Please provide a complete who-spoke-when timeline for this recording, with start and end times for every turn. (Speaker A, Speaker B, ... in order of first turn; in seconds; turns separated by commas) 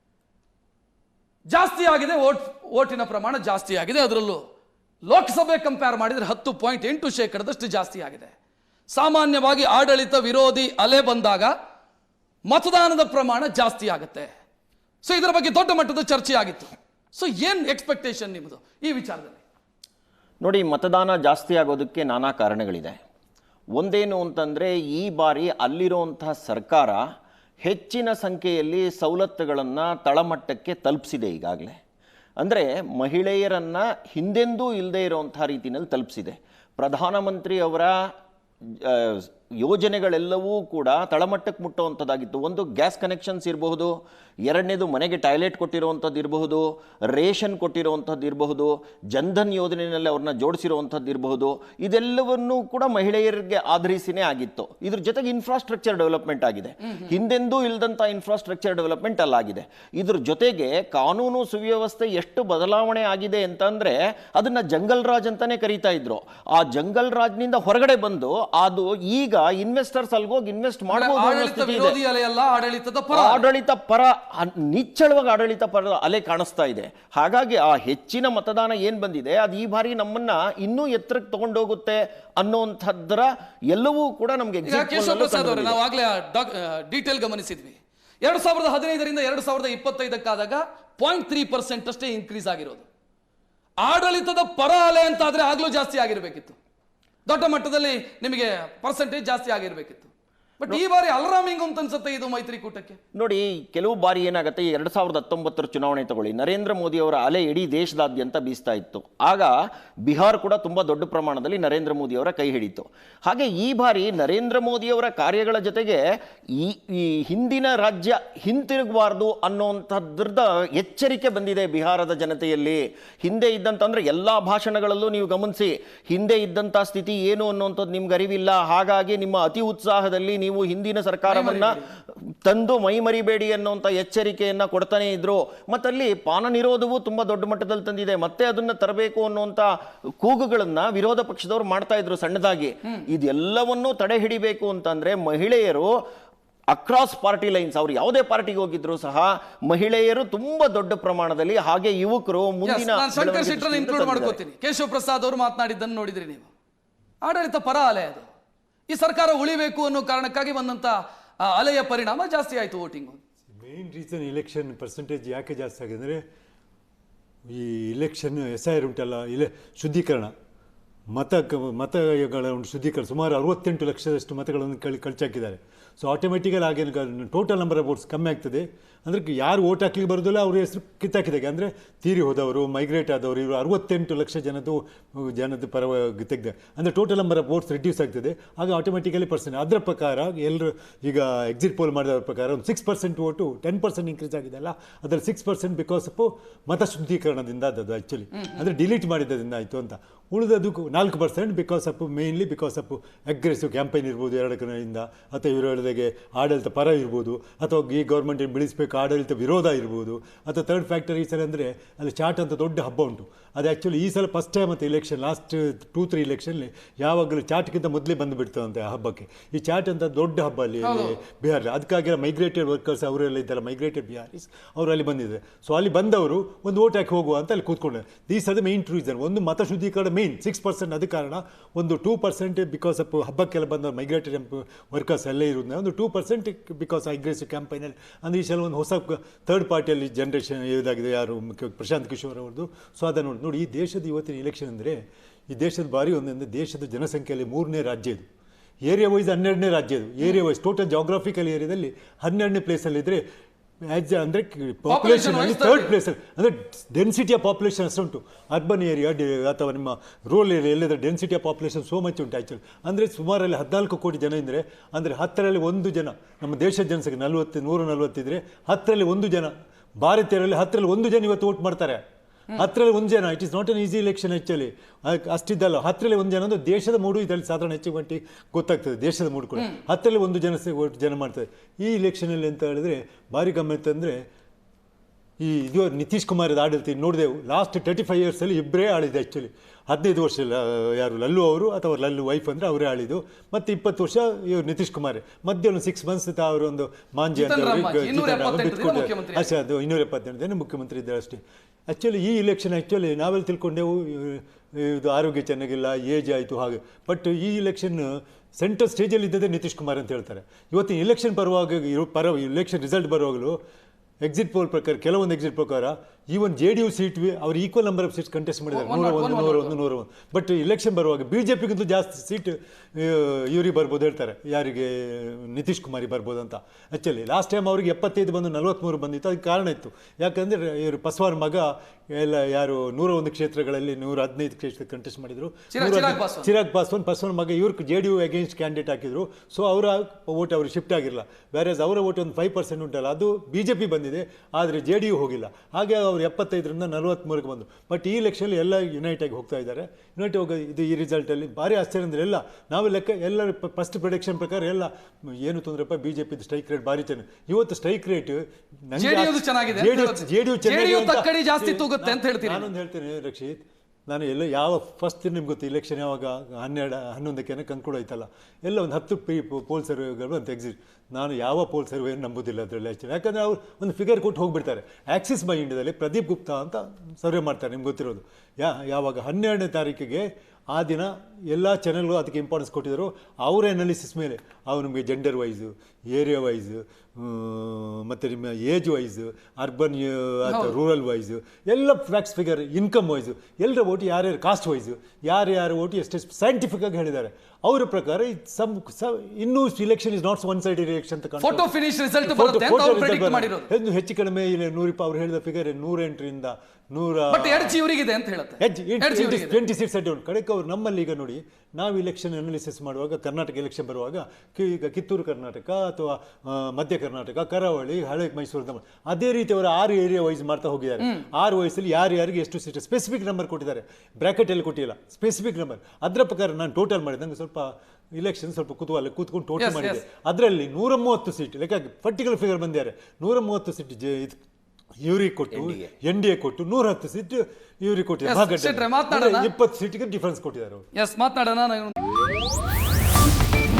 Speaker A: 1.5-4.4, Speaker A: 5.0-8.3, Speaker A: 8.9-11.5, Speaker A: 12.5-14.3, Speaker A: 15.0-19.4, Speaker B: 20.4-23.0, Speaker B: 23.8-27.0, Speaker B: 27.6-31.8, Speaker B: 32.4-37.9, Speaker B: 38.7-43.9, Speaker B: 44.5-72.0, Speaker A: 70.9-73.4, Speaker B: 73.1-85.8, Speaker A: 84.7-92.8, Speaker A: 93.8-96.5, Speaker A: 97.2-100.1, Speaker A: 100.6-103.0, Speaker B: 103.1-109.5, Speaker B: 110.0-116.0, Speaker B: 116.6-131.8, Speaker A: 131.3-131.8, Speaker B: 132.4-139.7, Speaker B: 140.2-145.9, Speaker B: 146.7-154.4, Speaker A: 152.6-156.5, Speaker A: 157.2-158.3, Speaker A: 158.9-163.2, Speaker C: 163.5-166.2, Speaker C: 167.5-170.3, Speaker C: 171.1-245.0, Speaker A: 220.8-221.2, Speaker C: 245.5-248.2, Speaker C: 248.8-253.2, Speaker C: 253.8-272.0, Speaker A: 254.9-255.9, Speaker C: 272.5-284.2, Speaker C: 285.4-313.6, Speaker A: 297.3-299.5, Speaker C: 314.2-401.7, Speaker A: 318.7-319.8, Speaker A: 335.7-336.5, Speaker A: 358.9-362.7, Speaker A: 390.4-390.7, Speaker A: 401.4-403.7, Speaker C: 402.2-407.8, Speaker A: 407.3-409.6, Speaker C: 408.6-434.4, Speaker A: 429.6-430.0, Speaker C: 435.0-440.9, Speaker B: 435.6-435.9, Speaker A: 438.2-439.5, Speaker A: 440.9-441.9